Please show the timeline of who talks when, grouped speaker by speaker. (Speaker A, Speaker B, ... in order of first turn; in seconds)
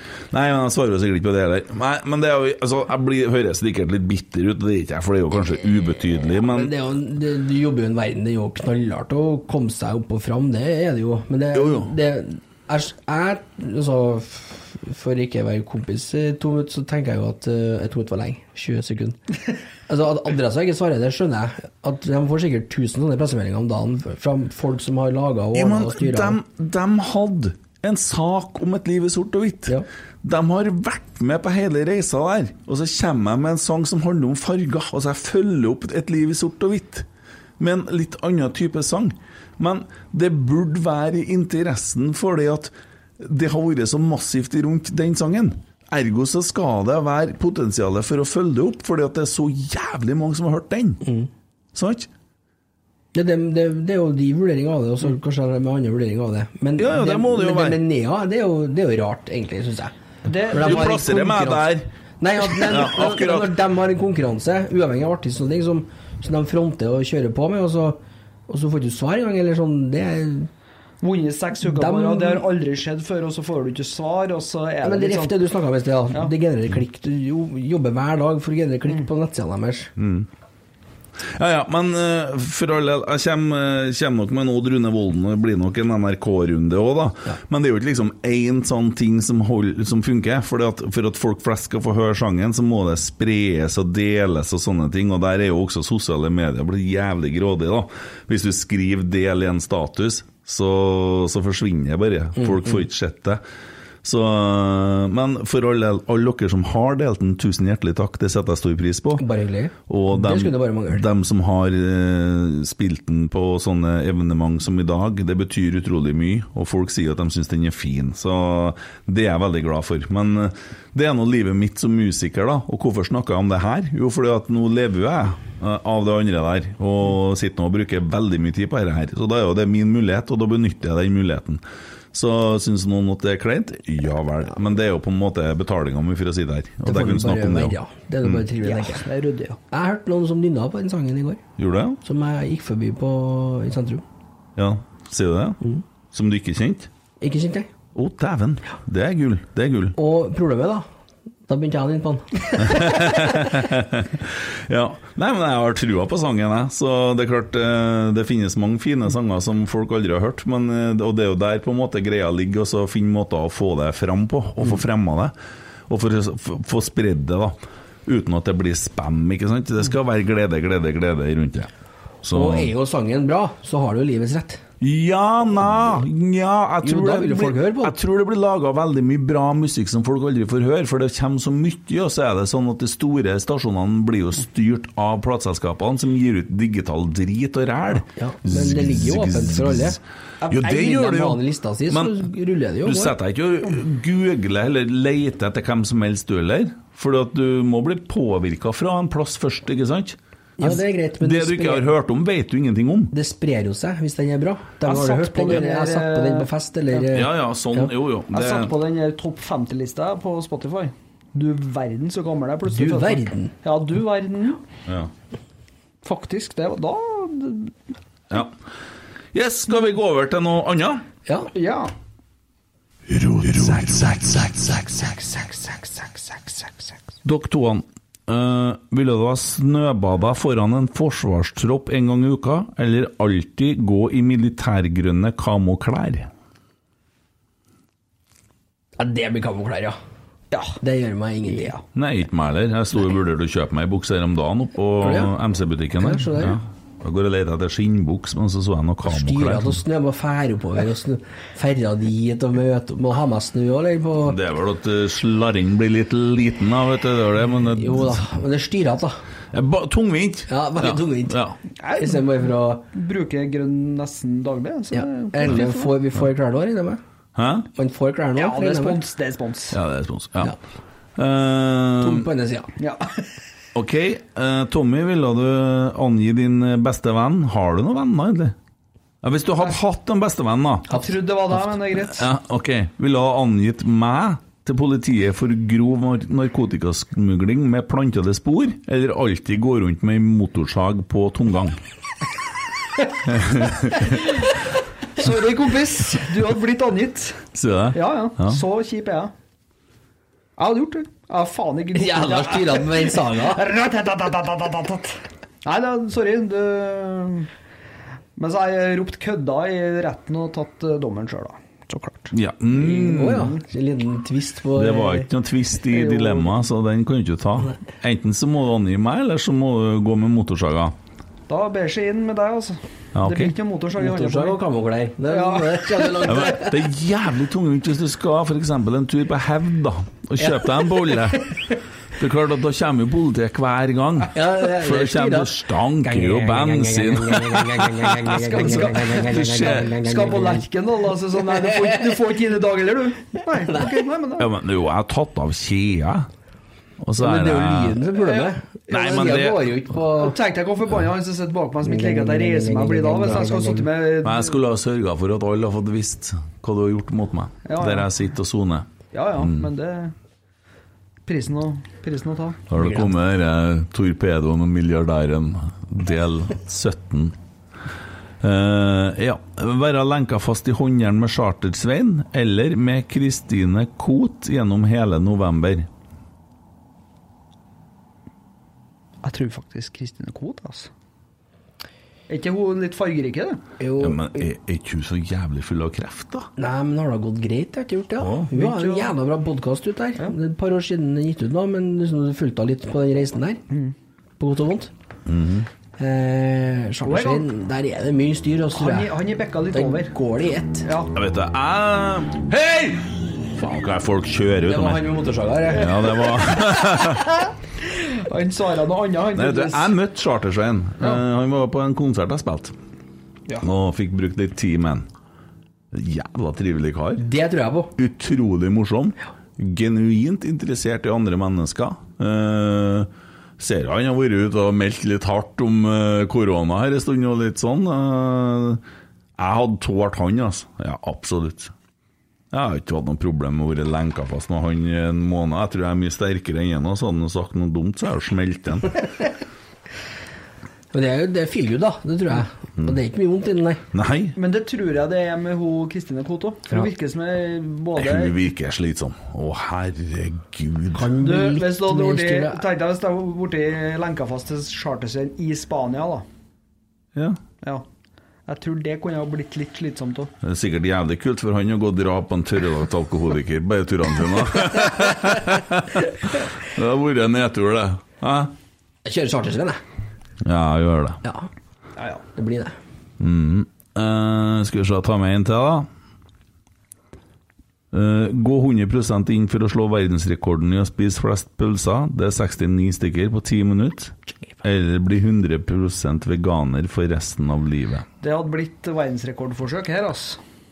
Speaker A: 0.3-6.7, 11.5-11.9, 25.5-37.0, 37.6-51.0, 51.7-52.1, 56.8-57.8, 60.5-61.9, 62.4-63.5, 80.0-80.3, 81.3-103.4, 104.0-109.3, 109.9-131.6, 132.1-138.5, 141.6-142.0, 144.6-146.9, 147.9-149.9, 152.6-165.3, 165.9-171.7, 172.2-172.7, 174.8-192.2, 192.8-203.1, 207.1-208.7, 219.3-221.0, 223.2-224.5, 227.2-236.3, 241.9-249.8, 254.2-258.2, 259.5-261.6, 267.4-267.7, 269.7-270.6, 271.1-272.3, 273.7-278.5, 279.2-281.0, 282.1-291.8, 293.2-294.2, 297.5-298.6, 312.3-313.5, 314.7-320.9, 323.1-323.5, 326.2-331.6, 332.1-339.9, 344.4-346.3, 347.0-348.0, 348.9-349.8, 354.2-359.6, 362.7-367.3, 368.4-375.9, 384.0-386.5, 388.2-388.5, 395.2-395.7, 401.1-405.1, 405.7-407.3, 409.3-412.7, 413.6-415.1, 415.9-417.2, 418.0-428.8, 429.4-431.7, 432.5-439.1, 443.9-444.3, 447.9-451.1, 460.4-468.5, 470.4-471.2, 473.2-475.9, 477.9-488.1
Speaker B: 6.4-19.2, 19.9-26.4, 51.0-51.3, 53.1-59.9, 60.5-61.7, 62.2-70.5, 71.6-72.5, 74.8-79.9, 109.2-111.1, 136.8-139.1, 139.7-141.4, 142.0-144.0, 147.2-147.7, 149.9-150.8, 151.5-153.5, 172.3-174.6, 176.8-178.0, 188.1-190.0, 190.6-193.2, 200.6-201.9, 203.1-207.9, 212.7-213.5, 239.0-240.0, 240.8-241.8, 245.0-245.3, 246.0-246.6, 249.0-254.4, 257.7-259.2, 260.5-261.4, 261.9-262.8, 264.9-267.0, 267.7-269.0, 272.0-272.7, 301.9-303.6, 312.8-315.3, 324.0-326.8, 334.3-340.6, 341.5-342.2, 343.6-343.9, 347.2-350.4, 351.8-353.9, 362.8-363.1, 383.8-384.4, 386.6-393.6, 394.4-394.9, 396.0-399.2, 399.7-400.9, 404.6-406.1, 417.2-417.9, 440.9-443.8, 450.9-452.6, 469.0-469.8, 471.2-471.5, 472.3-472.8
Speaker C: 60.2-61.1, 71.0-75.4, 138.6-139.6, 190.4-191.0, 204.8-207.1, 208.3-214.6, 216.0-217.8, 221.5-221.9, 224.8-226.9, 240.5-240.8, 241.5-241.8, 261.8-262.4, 262.9-265.9, 268.4-269.8, 272.8-273.2, 280.9-282.3, 295.1-297.4, 297.9-299.3, 300.6-307.5, 308.4-312.3, 315.9-316.5, 321.5-324.6, 325.3-326.5, 338.3-344.5, 348.2-348.5, 350.1-354.5, 357.6-358.1, 359.1-360.1, 361.2-362.6, 379.2-380.9, 382.3-383.6, 388.5-389.1, 397.0-397.5, 398.7-400.1, 400.8-401.1, 407.8-409.9, 444.4-448.4, 451.2-456.2, 458.5-460.3, 472.0-472.2, 488.2-490.4